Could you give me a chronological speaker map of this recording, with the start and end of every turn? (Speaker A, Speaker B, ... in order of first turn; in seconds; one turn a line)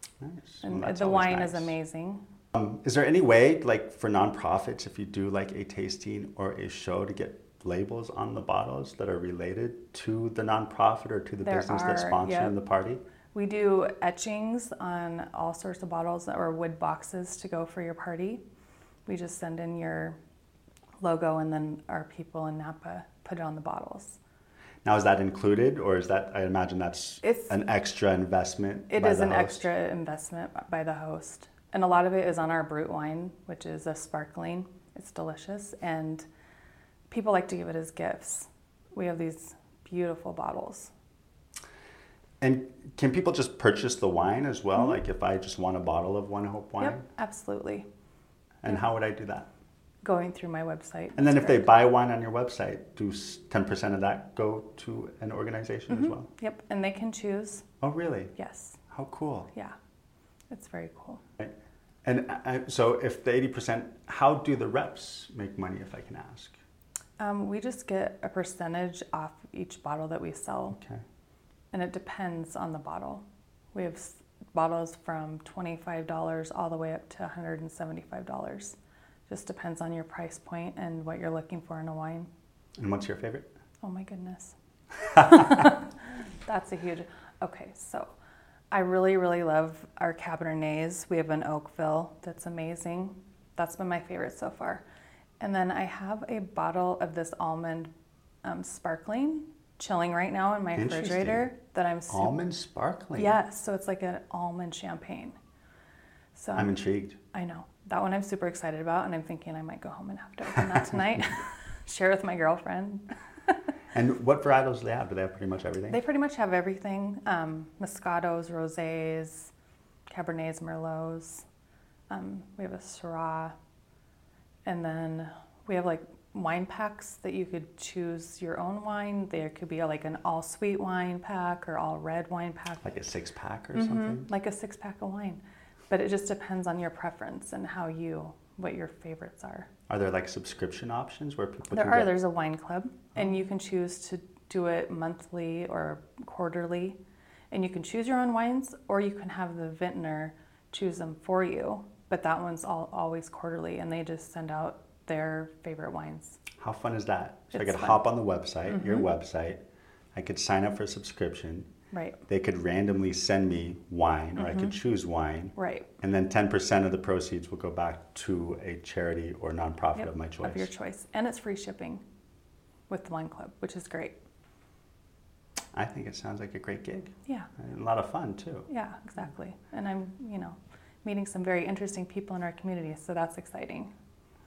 Speaker A: 0.2-1.8
Speaker B: 0.6-2.2
Speaker A: 2.5-13.0
Speaker B: 11.4-12.6
Speaker B: 13.3-18.4
Speaker B: 19.1-20.2
Speaker B: 21.0-24.2
Speaker A: 24.8-29.7
Speaker B: 27.2-27.6
Speaker B: 28.9-36.2
Speaker B: 37.1-40.9
Speaker A: 42.4-47.0
Speaker B: 46.8-47.8
Speaker A: 48.6-49.5
Speaker B: 50.0-51.7
Speaker A: 51.2-56.3
Speaker B: 55.9-57.6
Speaker A: 57.8-58.3
Speaker B: 58.4-58.8
Speaker A: 58.9-59.5
Speaker B: 60.5-61.2
Speaker A: 62.0-66.5
Speaker B: 67.2-70.8
Speaker A: 70.8-71.0
Speaker B: 71.7-78.8
Speaker B: 79.3-82.3
Speaker A: 82.8-83.5
Speaker B: 83.8-84.5
Speaker B: 85.0-85.9
Speaker B: 86.4-88.1
Speaker B: 88.7-94.8
Speaker B: 95.4-97.9
Speaker B: 98.4-102.3
Speaker A: 100.7-101.4
Speaker A: 102.1-103.3
Speaker B: 103.2-105.3
Speaker B: 106.3-106.7
Speaker A: 106.5-107.2
Speaker B: 107.3-113.5
Speaker A: 113.9-116.0
Speaker B: 115.9-119.5
Speaker B: 120.1-121.4
Speaker B: 122.1-123.5
Speaker B: 124.6-132.9
Speaker A: 132.8-134.3
Speaker B: 133.7-139.7
Speaker A: 139.9-142.2
Speaker B: 141.7-147.0
Speaker B: 147.5-156.4
Speaker A: 156.6-159.6
Speaker B: 157.5-158.0
Speaker B: 158.7-159.1
Speaker A: 160.1-161.7
Speaker B: 161.9-162.2
Speaker A: 162.3-170.7
Speaker B: 164.3-164.7
Speaker B: 165.6-165.9
Speaker B: 169.9-172.0
Speaker B: 172.9-174.2
Speaker A: 175.7-178.7
Speaker B: 177.2-177.5
Speaker B: 178.7-183.9